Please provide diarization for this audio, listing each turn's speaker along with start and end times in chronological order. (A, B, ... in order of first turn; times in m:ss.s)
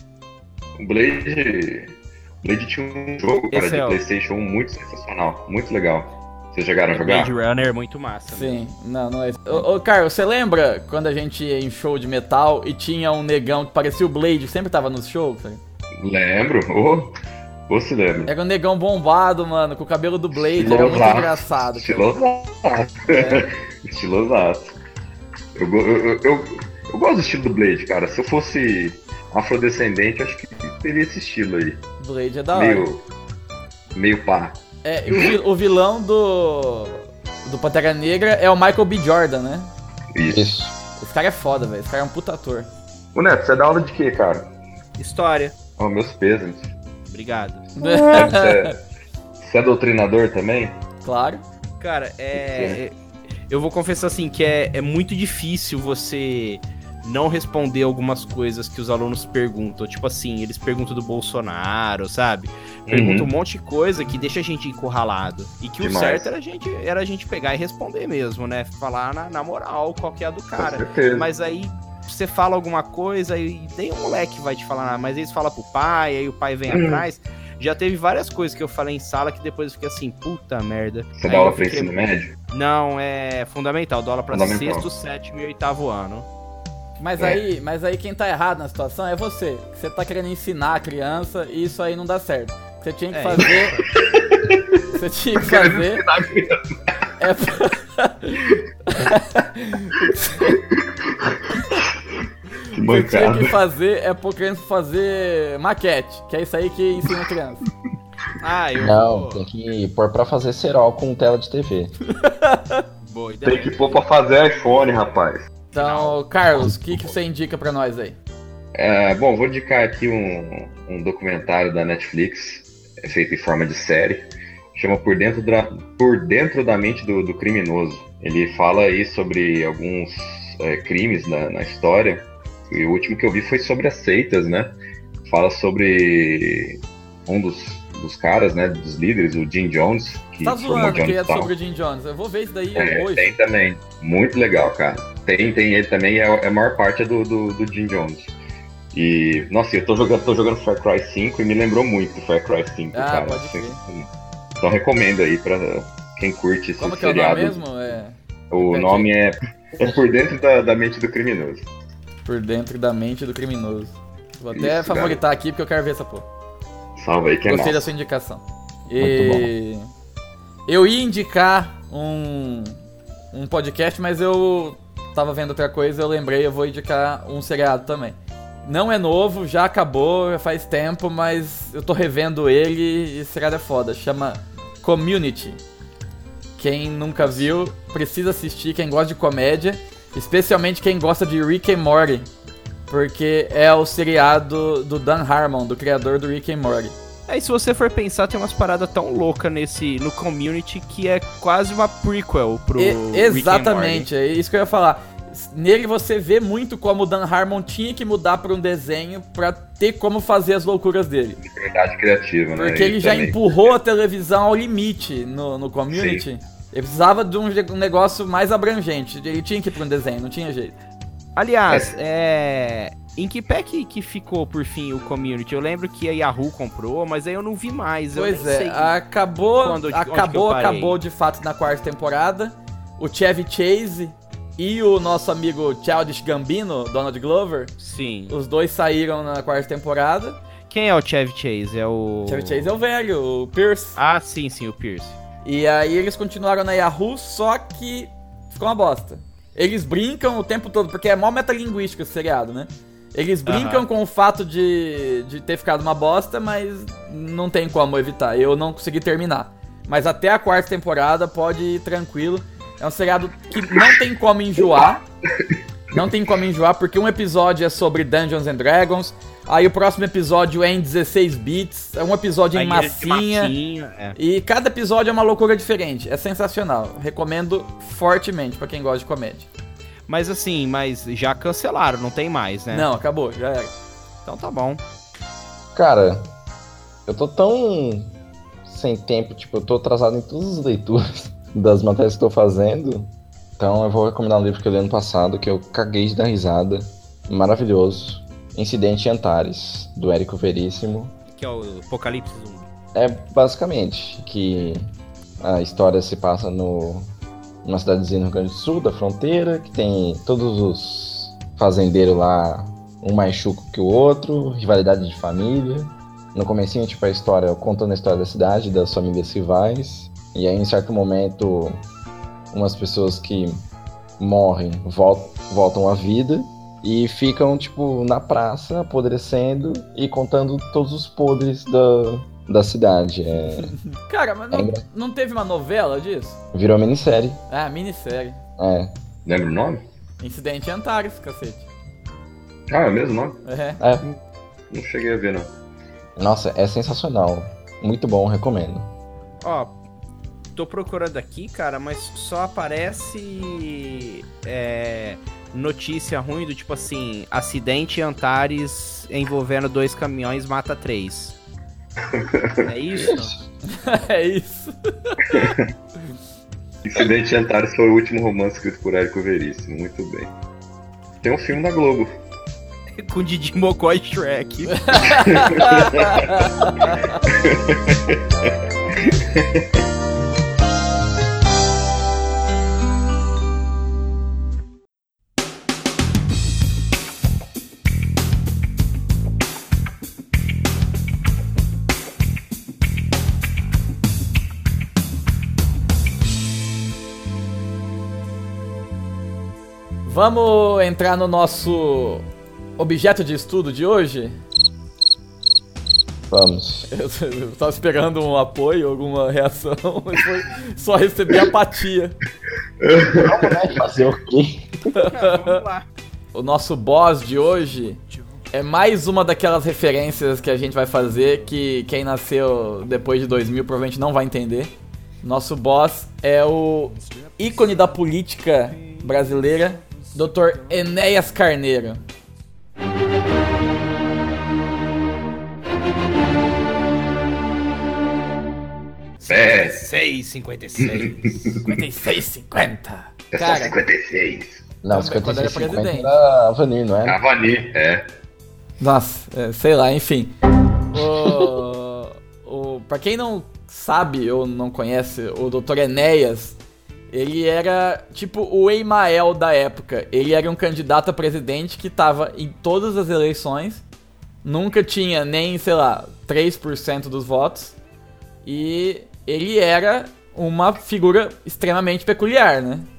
0:00.8-0:07.3 A
0:03.5-0:04.0 B
0:06.9-0:08.6 B
0:08.3-0:15.6 C
0:16.0-0:17.1 A
0:17.7-0:18.3 A
0:18.3-0:22.1 C
0:20.3-0:24.7 A
0:23.1-0:23.4 C
0:25.6-0:31.8 A
0:32.0-0:32.9 C
0:32.5-0:33.0 A
0:33.9-0:34.6 A
0:34.8-0:39.7 C
0:40.1-0:40.5 A
0:40.3-0:40.7 D
0:41.0-0:42.7 C
0:43.1-0:44.5 A
0:45.0-0:45.5 B
0:45.8-0:46.7 A
0:47.1-0:47.7 B
0:47.8-0:48.7 C
0:47.8-0:48.8 A
0:49.4-0:50.8 A
0:51.0-0:51.4 C
0:51.8-0:52.9 B
0:52.4-0:52.8 A
0:53.5-1:22.0 B
1:02.9-1:03.3 A
1:05.8-1:06.3 A
1:10.6-1:11.2 A
1:16.7-1:17.0 A
1:21.2-1:22.3 A
1:22.5-1:26.3 B
1:24.3-1:24.9 A
1:27.0-1:33.8 C
1:33.1-1:33.9 B
1:34.0-1:34.8 A
1:34.9-1:36.0 C
1:35.4-1:36.6 A
1:37.2-1:40.6 C
1:40.4-1:42.0 A
1:42.7-1:43.5 A
1:42.8-1:47.6 C
1:48.4-1:49.4 B
1:48.8-1:51.9 D
1:52.1-1:52.8 C
1:53.0-1:53.9 B
1:53.4-1:55.5 A
1:55.7-1:58.2 C
1:55.8-1:56.2 B
1:56.6-1:57.0 D
1:58.7-2:21.5 A
2:20.4-2:23.3 C
2:22.8-2:28.3 A
2:28.9-2:34.1 A
2:32.9-2:33.8 C
2:34.6-2:37.6 A
2:36.8-2:39.1 C
2:38.5-2:41.7 A
2:42.2-2:46.2 C
2:44.5-2:45.2 A
2:47.0-2:47.9 A
2:47.4-2:49.9 C
2:49.0-2:49.5 D
2:50.7-2:52.8 C
2:53.3-3:05.6 C
3:06.6-3:12.3 C
3:12.9-3:17.0 C
3:17.3-3:24.1 B
3:22.8-3:31.4 C
3:31.4-3:33.6 A
3:32.6-3:40.8 C
3:35.9-3:36.2 A
3:41.4-3:48.9 B
3:41.7-3:41.9 A
3:48.1-3:57.7 C
3:49.6-3:51.0 B
3:57.8-3:58.4 B
3:58.3-4:00.4 C
4:00.7-4:02.7 B
4:02.3-4:04.0 C
4:04.0-4:05.2 B
4:05.4-4:25.0 C
4:13.4-4:13.9 B
4:25.9-4:33.5 C
4:32.5-4:34.2 B
4:34.2-4:39.5 C
4:40.1-4:42.9 B
4:42.7-4:43.7 C
4:44.2-4:44.8 B
4:45.7-4:46.3 D
4:47.0-4:48.1 D
4:48.6-5:01.1 D
5:01.3-5:02.7 B
5:02.9-5:04.9 D
5:05.4-5:07.1 D
5:07.6-5:21.8 D
5:22.5-5:23.6 D
5:24.2-5:33.7 D
5:33.9-5:36.4 C
5:34.5-5:34.8 D
5:36.5-5:37.4 D
5:37.5-5:38.4 C
5:38.6-5:38.9 D
5:39.2-5:39.8 A
5:40.2-5:41.7 C
5:42.7-5:43.4 A
5:43.4-5:43.8 C
5:43.8-5:44.0 D
5:44.7-5:45.5 A
5:46.2-5:48.9 D
5:49.4-5:49.7 B
5:50.5-6:01.4 B
6:02.1-6:02.7 A
6:02.6-6:03.4 B
6:03.0-6:03.3 D
6:03.7-6:05.2 C
6:05.3-6:05.7 A
6:06.8-6:10.3 A
6:11.2-6:12.1 A
6:13.0-6:15.2 B
6:14.7-6:17.2 C
6:15.1-6:16.5 A
6:17.3-6:19.8 A
6:40.0-6:42.2 C
6:42.8-6:44.4 C
6:46.3-6:46.9 D
6:46.9-6:52.2 C
6:52.8-6:53.5 A
6:53.0-6:54.9 D
6:54.9-6:55.6 C
6:55.0-6:55.9 B
6:56.3-6:58.0 C
6:58.5-7:12.0 C
7:19.2-7:21.5 B
7:19.3-7:19.8 A
7:20.8-7:21.6 A
7:21.6-7:23.8 C
7:23.3-7:24.6 A
7:24.8-7:27.2 D
7:24.9-7:26.1 C
7:27.0-7:28.0 A
7:28.8-7:30.3 C
7:30.9-7:36.6 C
7:37.1-7:43.8 C
7:44.4-7:47.8 C
7:48.4-7:52.9 C